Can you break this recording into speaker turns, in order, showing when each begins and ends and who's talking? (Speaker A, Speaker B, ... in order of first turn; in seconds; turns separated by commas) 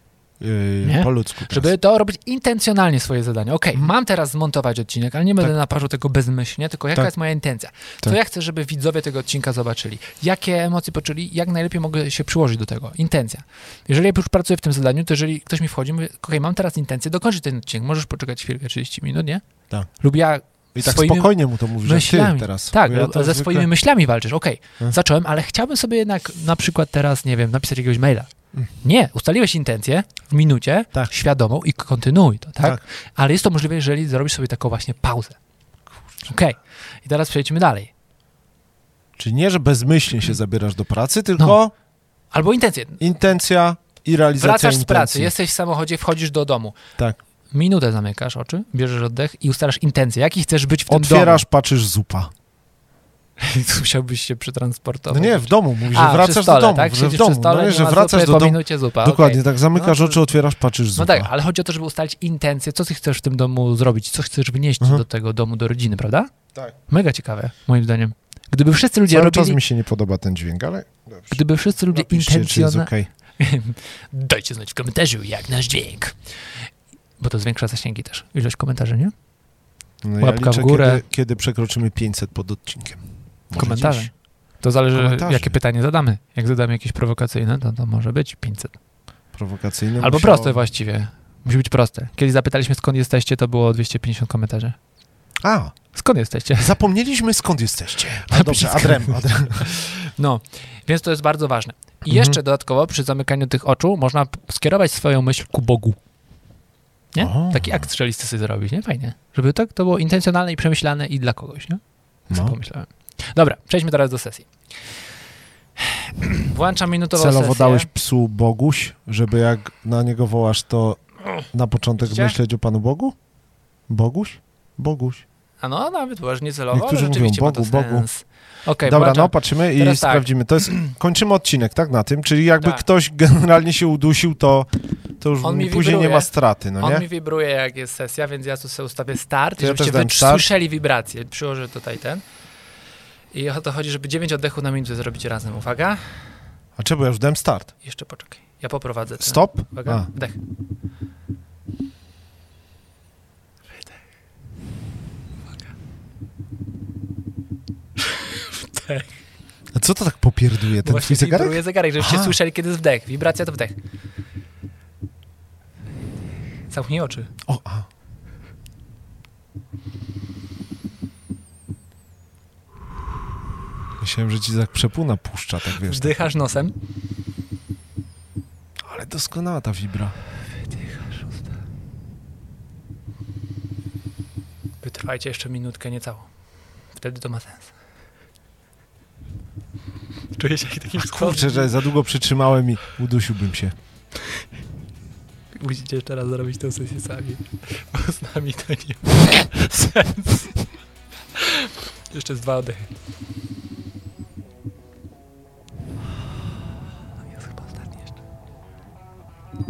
Speaker A: 0.4-1.7, Speaker B: 0.8-19.4, Speaker B: 20.0-28.3, Speaker A: 20.7-23.7, Speaker B: 28.8-35.4, Speaker B: 36.2-37.9, Speaker A: 39.2-41.7, Speaker B: 42.3-43.0, Speaker A: 43.0-45.3, Speaker B: 44.4-46.8, Speaker B: 47.5-51.4, Speaker A: 50.9-52.3, Speaker B: 53.4-60.2, Speaker A: 55.1-61.3, Speaker B: 61.0-66.3, Speaker B: 66.9-69.6, Speaker A: 69.1-73.1, Speaker B: 71.3-76.2, Speaker B: 77.2-79.1, Speaker A: 80.0-84.1, Speaker B: 80.2-81.0, Speaker B: 83.5-88.8, Speaker A: 84.9-85.6, Speaker A: 89.3-90.6, Speaker B: 90.0-94.8, Speaker A: 95.4-95.8, Speaker B: 95.9-96.7, Speaker A: 96.6-99.8, Speaker B: 98.3-106.0, Speaker A: 102.1-102.4, Speaker B: 107.1-114.5, Speaker A: 107.2-107.9, Speaker A: 112.3-112.6, Speaker B: 115.8-117.9, Speaker A: 117.2-123.2, Speaker B: 122.0-122.3, Speaker A: 123.9-125.2, Speaker B: 125.6-130.3, Speaker A: 126.7-128.1, Speaker A: 128.8-137.1, Speaker B: 135.4-142.2, Speaker A: 139.6-140.5, Speaker B: 143.3-146.2, Speaker A: 146.8-147.7, Speaker B: 147.8-150.4, Speaker A: 149.2-150.1, Speaker B: 158.1-159.1, Speaker A: 159.7-162.4, Speaker B: 160.8-163.8, Speaker B: 166.7-167.3, Speaker A: 167.5-167.9, Speaker A: 174.0-176.2, Speaker B: 175.8-176.7, Speaker A: 178.8-180.2, Speaker B: 180.7-181.3, Speaker B: 184.8-186.3, Speaker B: 186.9-187.7, Speaker B: 190.4-191.7, Speaker A: 190.9-193.7, Speaker B: 195.6-200.7, Speaker B: 201.4-202.9, Speaker B: 207.4-207.8